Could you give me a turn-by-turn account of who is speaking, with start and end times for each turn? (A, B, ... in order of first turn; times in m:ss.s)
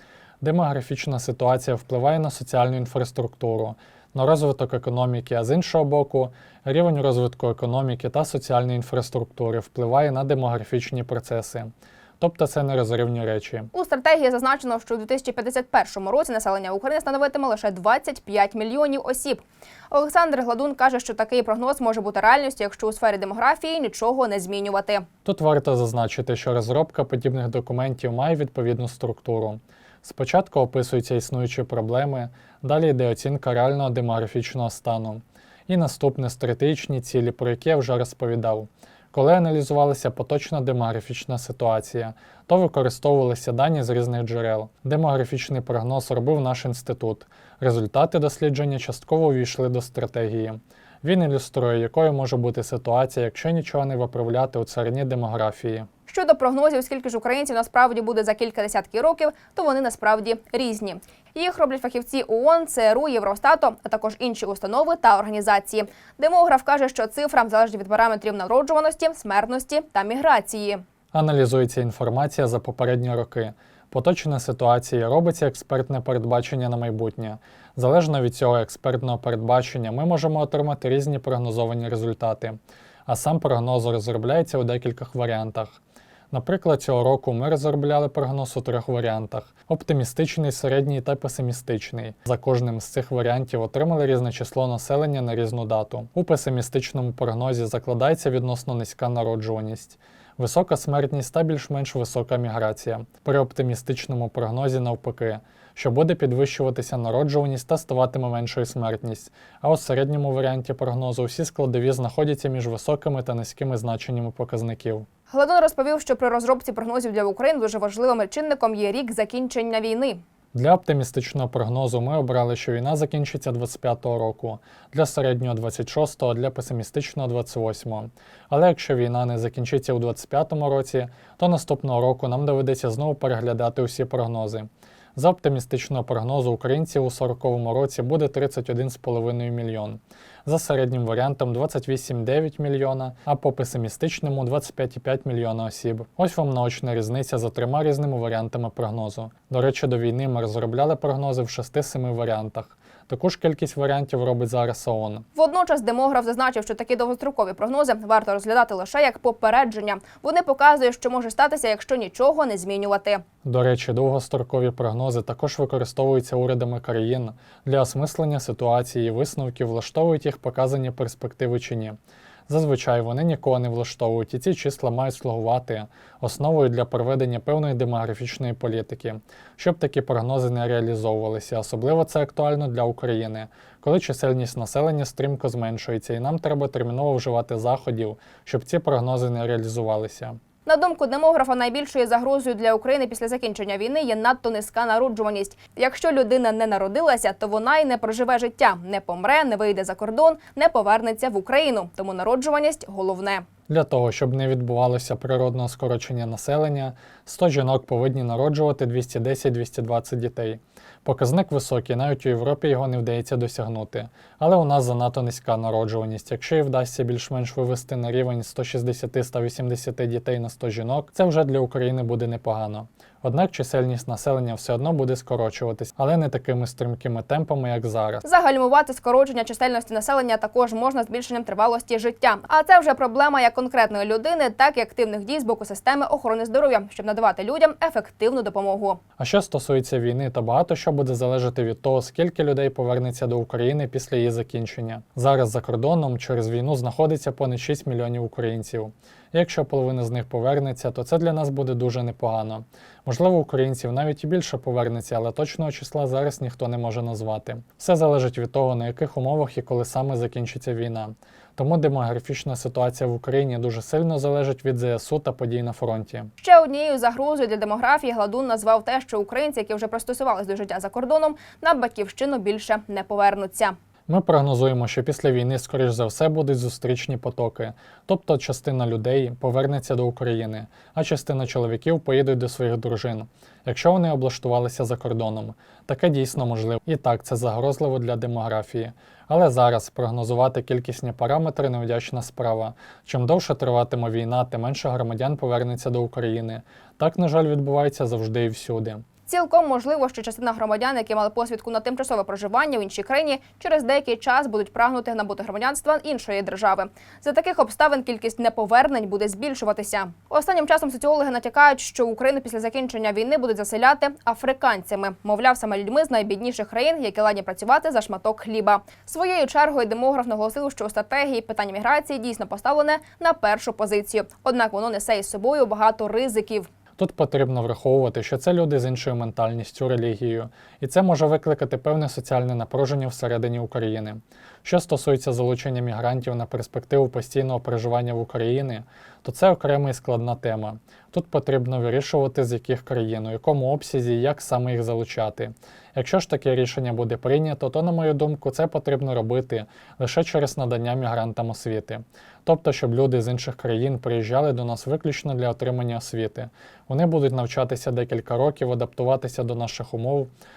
0:00.4-0:13.7 A
0:13.7-0:25.1 B
0:25.2-0:55.9 A
0:56.1-1:10.8 B
1:11.1-1:25.8 A
1:26.3-1:55.1 A
1:55.3-2:00.2 B
2:00.5-2:35.3 A
2:35.4-2:43.2 B
2:43.4-2:52.0 A
2:52.5-3:10.4 A
3:10.6-3:23.4 B
3:23.7-3:48.2 A
3:48.2-3:59.0 B
3:59.2-4:26.3 A
4:26.4-4:33.8 B
4:34.1-4:59.0 A
4:59.3-5:26.7 B
5:27.0-6:00.3 A